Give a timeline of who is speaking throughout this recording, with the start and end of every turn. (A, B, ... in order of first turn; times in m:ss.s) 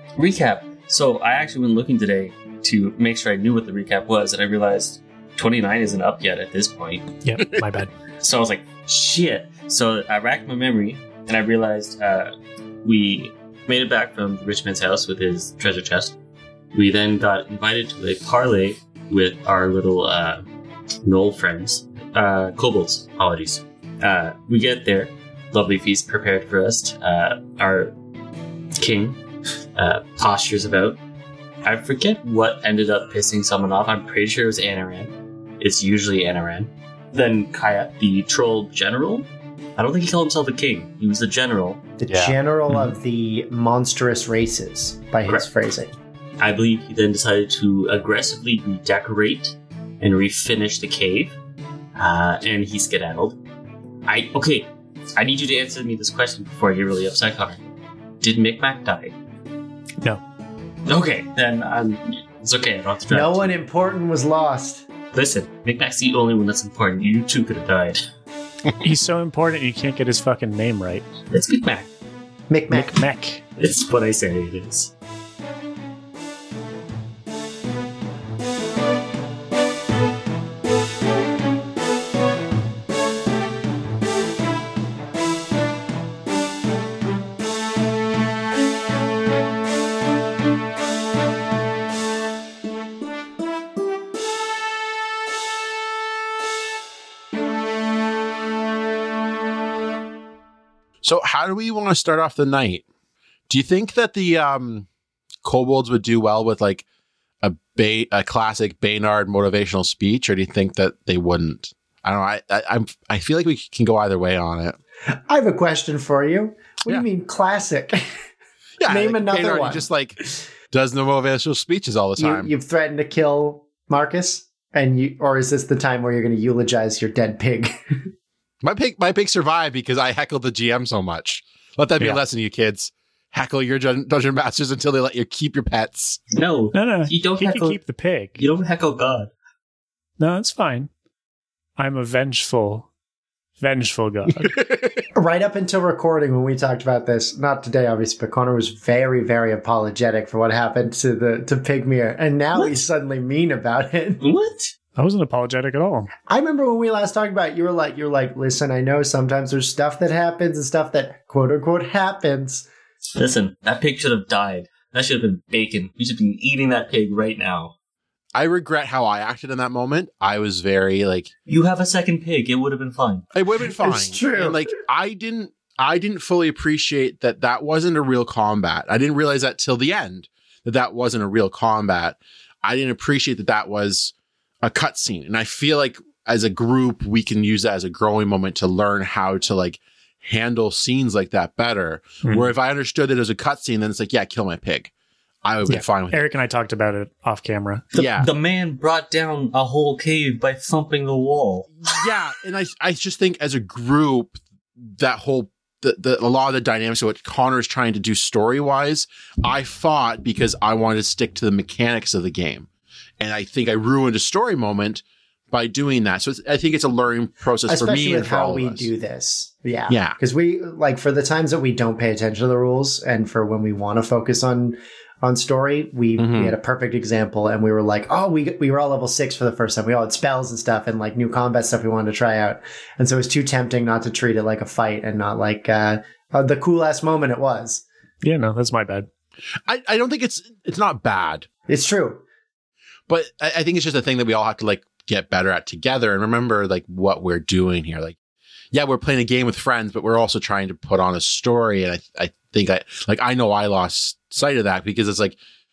0:00.2-0:07.1 A
0:07.2-0:07.9 B
0:08.2-0:16.2 A
0:16.7-0:20.4 A
0:21.0-0:27.9 A
0:28.8-0:29.2 A
0:29.7-0:31.0 A
0:31.6-0:42.0 A
0:42.0-0:45.9 C
0:42.0-0:42.4 D
0:46.4-0:51.4 A
0:52.0-0:53.4 A
0:54.1-0:57.6 A
0:58.2-0:59.1 A
1:00.8-1:03.5 A
1:03.1-1:04.8 C
1:05.1-1:08.0 A
1:08.8-1:11.1 B
1:11.3-1:11.9 A
1:12.5-1:13.0 C
1:12.7-1:13.4 B
1:13.6-1:14.9 A
1:41.0-1:42.8 D
1:43.5-1:44.9 D
1:45.4-1:46.8 D
1:47.4-1:54.8 D
1:55.1-1:58.0 C
1:58.8-2:02.5 D
1:58.9-1:59.9 C
2:02.2-2:08.0 C
2:08.6-2:16.2 D
2:16.3-2:17.8 A
2:16.7-2:18.4 B
2:18.4-2:19.3 A
2:20.2-2:20.9 B
2:21.8-2:22.9 B
2:23.6-2:24.6 B
2:24.6-2:24.9 D
2:25.1-2:34.2 C
2:34.2-2:34.7 A
2:35.0-2:36.1 B
2:36.3-2:42.7 C
2:43.2-2:47.7 A
2:48.3-2:51.3 D
2:51.4-2:53.3 A
2:53.3-3:14.9 D
2:53.7-2:54.6 C
3:12.2-3:12.5 B
3:15.4-3:16.2 D
3:15.6-3:17.8 B
3:17.9-3:22.1 A
3:17.9-3:18.3 D
3:21.8-3:24.4 D
3:25.0-3:32.7 D
3:33.2-3:38.9 D
3:37.7-3:57.8 C
3:39.9-3:40.2 D
3:46.2-3:46.5 D
3:58.2-3:59.1 B
3:59.6-4:01.5 D
4:01.7-4:02.2 C
4:03.1-4:08.1 D
4:08.7-4:15.4 D